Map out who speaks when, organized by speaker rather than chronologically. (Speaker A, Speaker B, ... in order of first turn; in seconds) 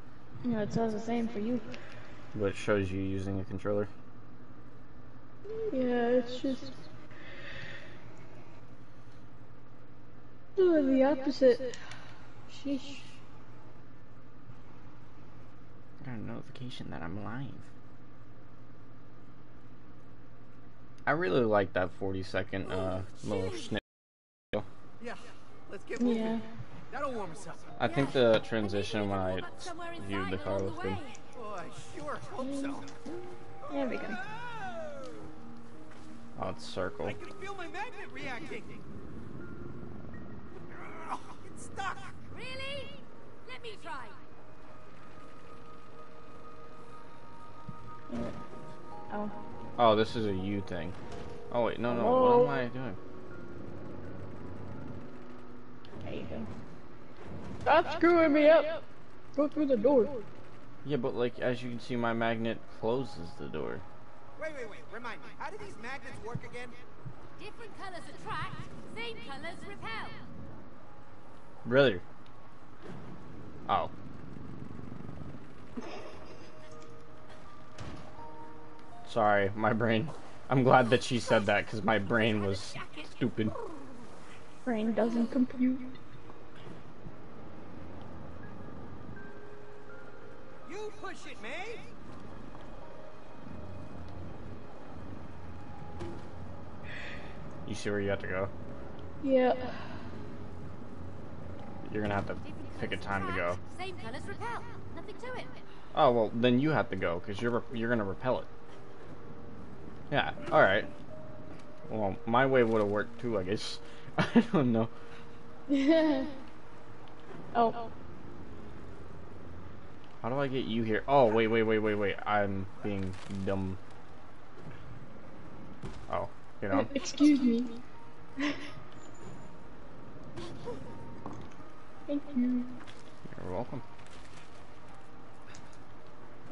Speaker A: 0.4-1.7, 5.7-6.8, 10.6-11.8, 12.5-13.1, 26.0-26.4, 32.4-32.8, 33.7-34.2, 48.1-48.3, 49.1-49.3, 51.9-52.6, 56.0-56.5, 57.6-58.8, 59.3-60.1, 84.6-86.0, 99.2-99.8, 115.7-116.3, 117.5-117.8, 126.7-127.8, 132.1-132.8
Speaker B: 2.3-3.9, 16.0-17.7, 21.1-23.8, 27.8-31.0, 36.4-37.2, 49.8-51.0, 51.5-53.0, 60.8-63.8, 71.6-72.0, 79.0-83.6, 97.7-98.5, 101.8-103.6, 105.9-108.5, 110.1-110.9, 111.9-114.9, 120.2-123.8, 126.1-127.0, 133.3-133.8
Speaker C: 25.0-27.8, 31.3-32.9, 33.6-35.3, 37.0-38.9, 40.7-42.2, 64.3-66.8, 90.6-91.9
Speaker D: 27.8-31.2, 42.3-44.2, 67.4-70.2, 82.5-84.1, 102.4-105.6